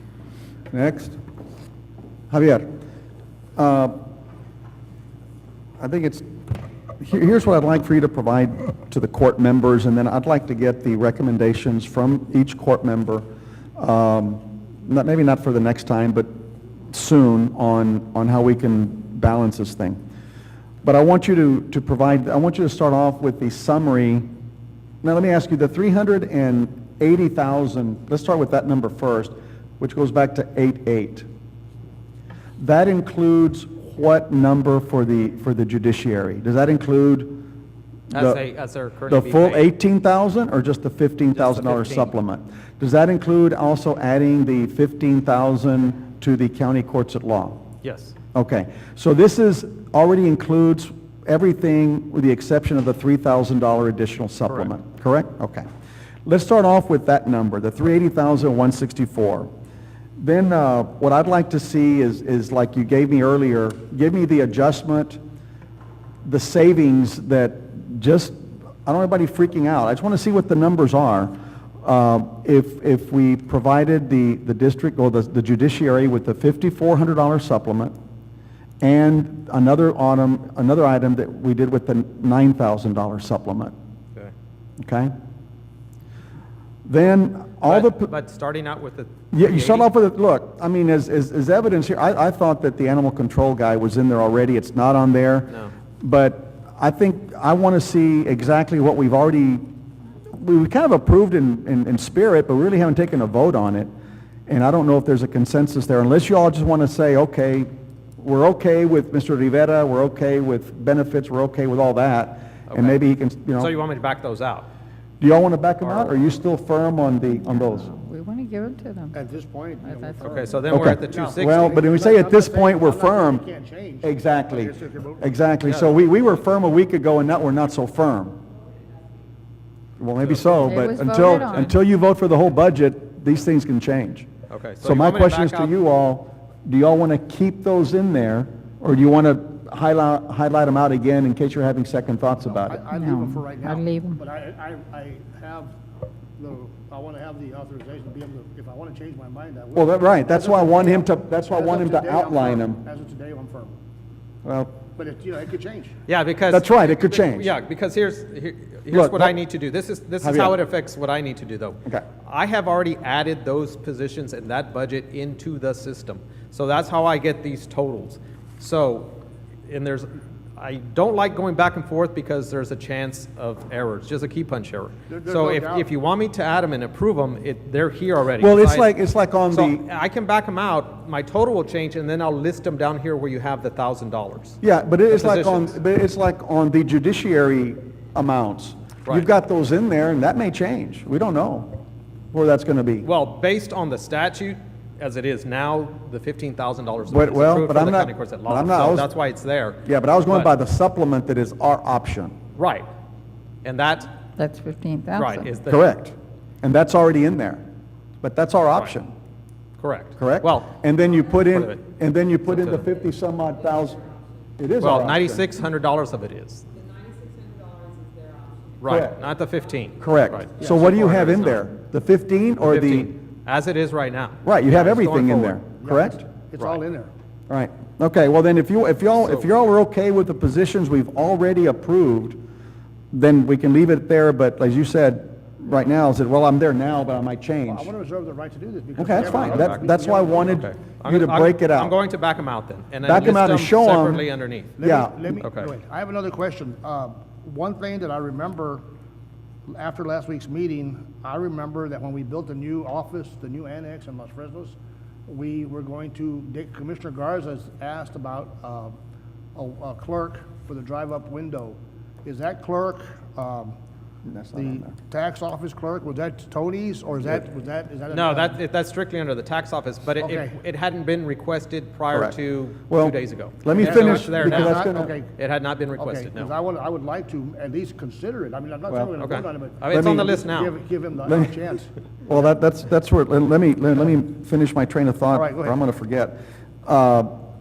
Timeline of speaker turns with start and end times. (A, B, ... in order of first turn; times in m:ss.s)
0:00.7-0:01.2 A
0:02.3-0:02.7 A
0:03.6-0:04.0 A
0:05.8-0:16.3 A
0:16.9-0:20.0 A
0:20.8-0:24.3 A
0:25.0-0:31.3 A
0:32.6-0:37.5 A
0:38.1-0:38.4 A
0:38.1-0:39.7 B
0:39.1-0:47.6 A
0:41.3-0:42.1 B
0:47.8-0:48.2 B
0:48.3-0:55.6 A
0:56.3-0:59.5 A
1:00.2-1:05.2 A
1:06.2-1:17.9 A
1:18.8-1:23.7 A
1:24.8-1:25.1 A
1:26.9-1:28.1 A
1:27.6-1:29.9 B
1:29.3-1:39.6 A
1:40.3-1:43.9 A
1:44.5-1:53.7 A
1:52.7-1:53.0 B
1:53.6-1:54.7 B
1:55.2-1:57.9 A
1:55.8-1:56.2 B
1:57.3-1:59.2 C
1:59.1-2:05.3 D
1:59.8-2:00.8 C
2:00.2-2:01.8 B
2:00.7-2:03.4 A
2:04.0-2:08.4 A
2:05.6-2:06.0 B
2:10.0-2:14.3 A
2:10.2-2:10.6 B
2:10.6-2:11.7 C
2:14.5-2:15.7 B
2:14.8-2:22.8 A
2:22.6-2:25.7 D
2:22.9-2:24.2 C
2:26.4-2:33.8 D
2:29.8-2:32.8 A
2:34.4-2:34.7 A
2:35.0-2:35.9 D
2:36.1-2:58.9 B
2:36.5-2:37.5 A
2:38.9-2:39.4 A
2:40.2-2:40.6 A
2:55.1-2:55.9 D
2:58.4-2:59.8 A
2:59.5-3:04.6 B
3:04.6-3:11.8 A
3:05.1-3:05.7 B
3:12.3-3:13.1 A
3:13.0-3:20.5 B
3:17.1-3:19.1 A
3:19.8-3:22.4 A
3:22.6-3:22.9 B
3:23.6-3:24.2 B
3:24.4-3:25.5 C
3:25.1-3:25.9 B
3:25.7-3:27.6 A
3:28.2-3:29.1 A
3:29.8-3:30.8 B
3:30.2-3:34.1 A
3:31.4-3:31.8 B
3:32.5-3:32.9 B
3:34.6-3:35.5 A
3:34.8-3:36.7 B
3:38.8-3:41.7 B
3:38.9-3:39.2 A
3:40.0-3:43.1 A
3:42.6-3:45.6 B
3:44.4-3:46.2 A
3:45.8-3:47.1 D
3:47.5-3:52.4 A
3:49.2-3:49.5 B
3:53.1-3:57.9 A
3:57.7-4:00.7 D
3:59.0-4:02.0 A
3:59.1-3:59.9 B
4:00.4-4:04.8 B
4:03.0-4:04.2 A
4:04.8-4:08.8 D
4:04.8-4:05.2 A
4:05.4-4:05.7 B
4:09.7-4:19.0 D
4:19.6-4:23.8 D
4:24.3-4:24.9 A
4:24.5-4:28.6 D
4:28.1-4:36.6 B
4:30.2-4:30.6 D
4:32.1-4:32.4 A
4:32.9-4:35.1 A
4:33.8-4:35.3 D
4:36.0-4:41.9 D
4:39.2-4:40.8 B
4:39.9-4:40.4 A
4:41.3-4:41.6 A
4:42.3-4:47.4 A
4:45.3-4:45.8 D